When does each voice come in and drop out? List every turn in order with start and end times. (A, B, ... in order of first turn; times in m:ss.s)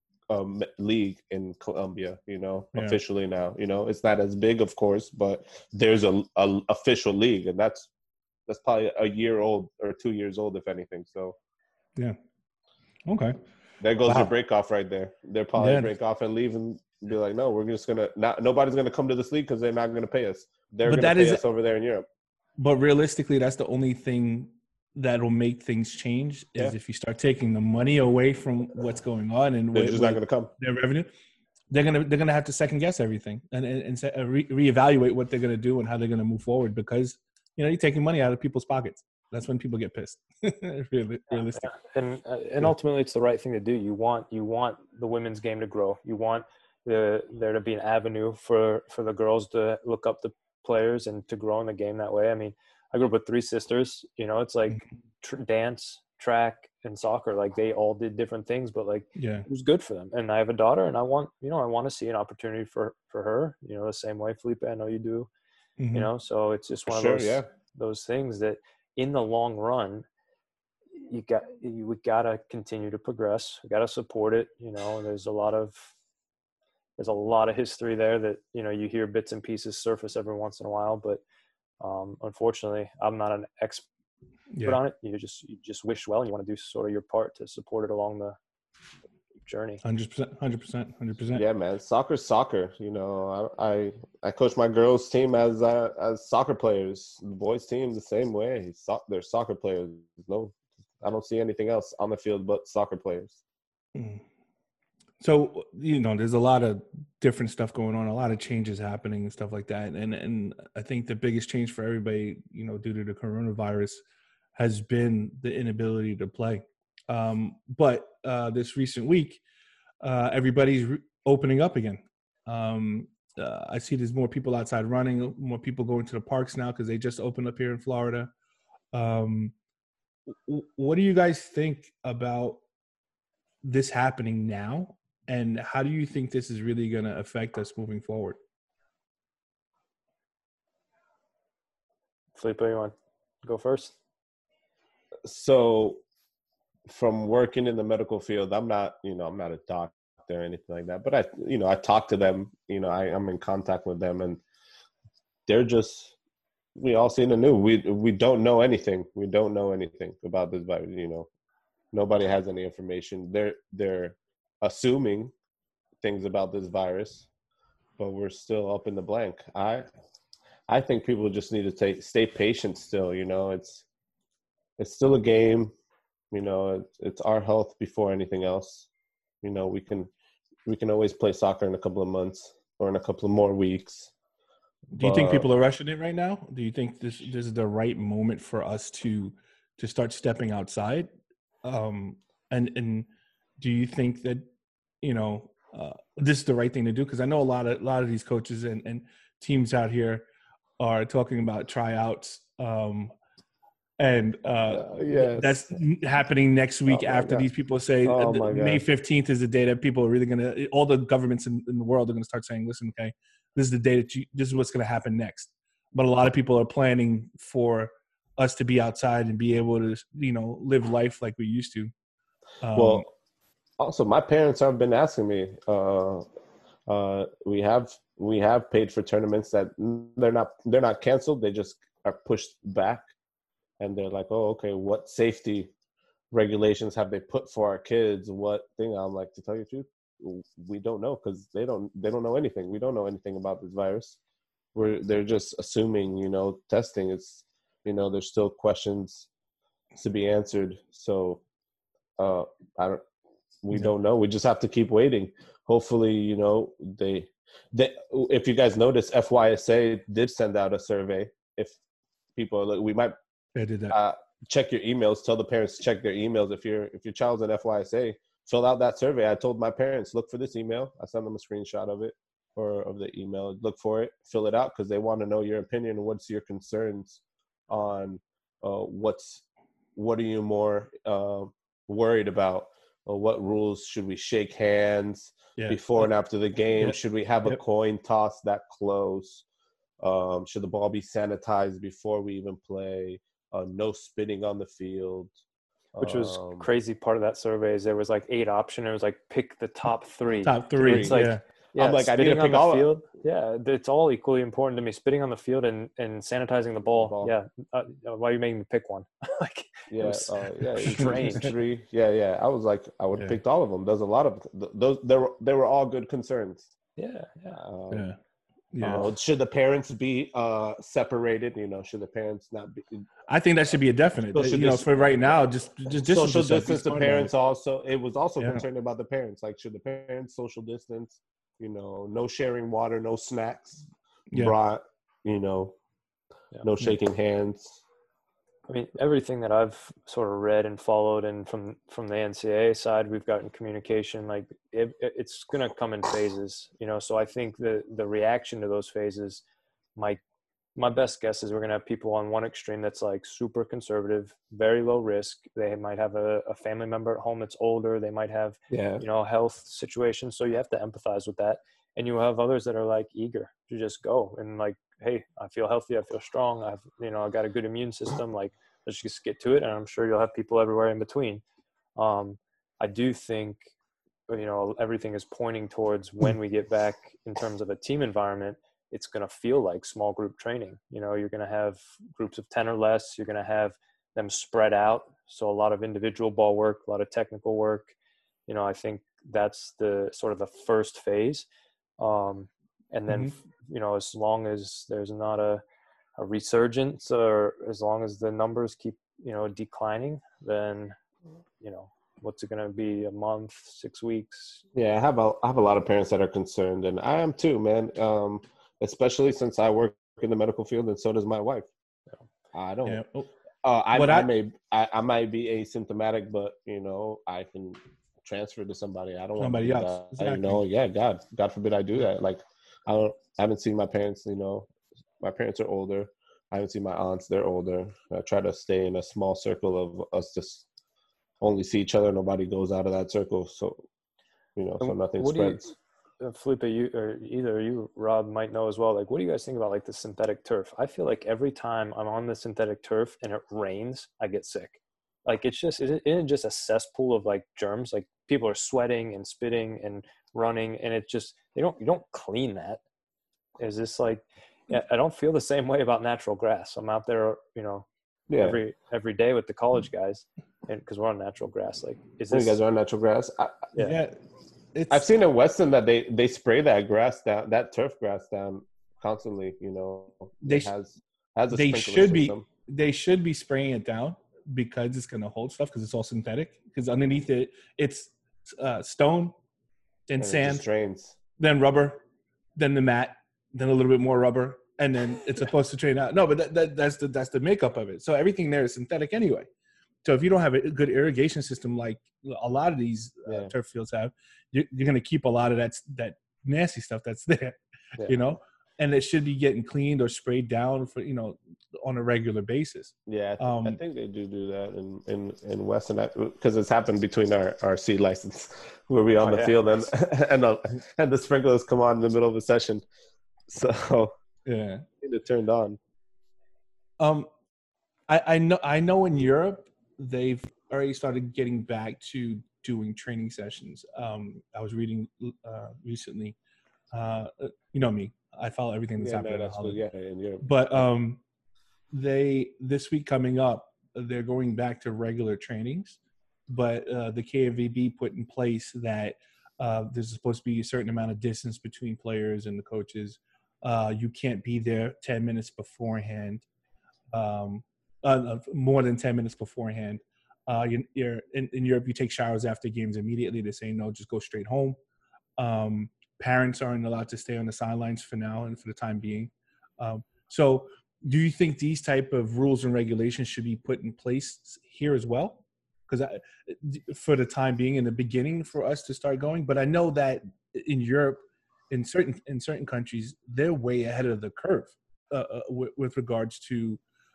0:00.3-0:07.9 A
0:08.5-0:11.4 A
0:13.1-0:13.4 B
0:13.8-0:22.0 A
0:14.0-0:14.3 B
0:15.6-0:15.9 B
0:20.8-0:21.4 B
0:22.6-0:31.1 B
0:29.7-0:30.5 A
0:31.7-0:41.7 B
0:41.5-1:05.3 C
0:59.1-0:59.5 B
1:05.8-1:06.1 B
1:05.9-1:10.0 C
1:06.9-1:07.5 A
1:10.9-1:15.9 C
1:17.0-1:21.2 C
1:21.8-1:23.8 C
1:24.5-1:24.8 B
1:24.6-1:28.4 C
1:29.4-1:29.8 C
1:29.8-1:31.4 B
1:31.3-1:43.4 A
1:43.9-1:44.2 B
1:45.2-1:54.0 B
1:54.6-1:59.4 B
2:00.0-2:08.3 B
2:08.9-2:09.5 B
2:10.3-2:12.6 B
2:13.6-2:18.4 B
2:22.3-2:24.0 C
2:25.2-2:26.0 A
2:26.9-2:34.4 A
2:35.5-2:36.1 A
2:36.8-2:41.3 A
2:41.9-2:45.3 A
2:46.0-2:47.3 A
2:48.0-2:49.8 A
2:50.7-2:53.8 A
2:54.8-2:55.7 A
2:56.3-2:58.9 A
2:59.4-3:00.1 A
3:00.6-3:04.1 A
3:04.9-3:11.1 B
3:05.0-3:05.5 A
3:11.6-3:13.1 B
3:13.6-3:14.4 B
3:15.0-3:20.2 B
3:20.8-3:23.1 B
3:24.0-3:41.9 B
3:24.7-3:25.6 A
3:26.9-3:27.5 A
3:28.0-3:28.8 A
3:42.6-3:43.0 B
3:42.7-3:43.0 A
3:43.8-3:46.2 A
3:46.9-3:53.1 A
3:53.8-3:55.7 A
3:56.3-4:04.2 A
4:04.7-4:09.3 A
4:09.9-4:11.4 A
4:12.2-4:13.0 A
4:13.6-4:21.8 A
4:22.4-4:23.1 A
4:23.5-4:23.9 B
4:23.9-4:39.4 A
4:40.0-4:49.4 A
4:45.6-4:46.0 B
4:46.8-4:47.6 B
4:50.0-4:55.3 A
4:55.9-4:56.7 A
4:56.0-5:11.6 C
5:00.4-5:01.4 B
5:00.8-5:02.9 A
5:07.0-5:07.3 A
5:09.9-5:16.7 A
5:10.8-5:11.3 B
5:17.0-5:17.6 C
5:17.6-5:18.0 A
5:17.9-5:18.2 B
5:18.7-5:19.1 B
5:18.8-5:23.0 A
5:23.3-5:27.3 B
5:24.3-5:25.2 A
5:25.9-5:35.8 A
5:36.6-5:37.8 A
5:38.7-5:49.4 C
5:50.8-6:11.4 C
5:58.7-5:59.0 A
6:12.0-6:13.7 C
6:14.3-6:27.9 C
6:28.5-6:31.4 C
6:32.0-6:35.6 C
6:33.1-6:33.3 B
6:36.2-6:41.0 C
6:41.6-6:44.6 C
6:44.7-6:51.7 A
6:52.5-6:53.0 A
6:52.8-6:53.3 B
6:53.6-7:04.7 A
6:53.9-6:54.3 B
6:59.4-7:00.6 B
7:05.2-7:10.7 A
7:11.4-7:13.9 A
7:14.6-7:15.7 A
7:14.8-7:32.8 C
7:33.6-7:42.6 C
7:38.3-7:38.6 A
7:42.3-7:43.7 A
7:43.8-7:44.1 B
7:44.7-7:45.0 B
7:44.9-7:52.4 A
7:50.4-7:50.7 B
7:51.5-7:59.3 B
8:00.1-8:00.6 B
8:00.2-8:01.2 A
8:01.4-8:02.0 B
8:02.6-8:09.5 B
8:10.0-8:23.8 B
8:13.3-8:13.5 A
8:23.1-8:32.8 A
8:29.2-8:29.6 C
8:33.5-8:34.1 A
8:34.4-8:34.8 B
8:35.0-8:35.8 A
8:37.0-8:37.3 B
8:38.1-8:46.4 B
8:46.9-8:49.8 B
8:49.0-8:50.8 A
8:50.4-8:51.2 B
8:51.9-9:06.4 B
9:07.1-9:14.8 B
9:15.4-9:36.8 B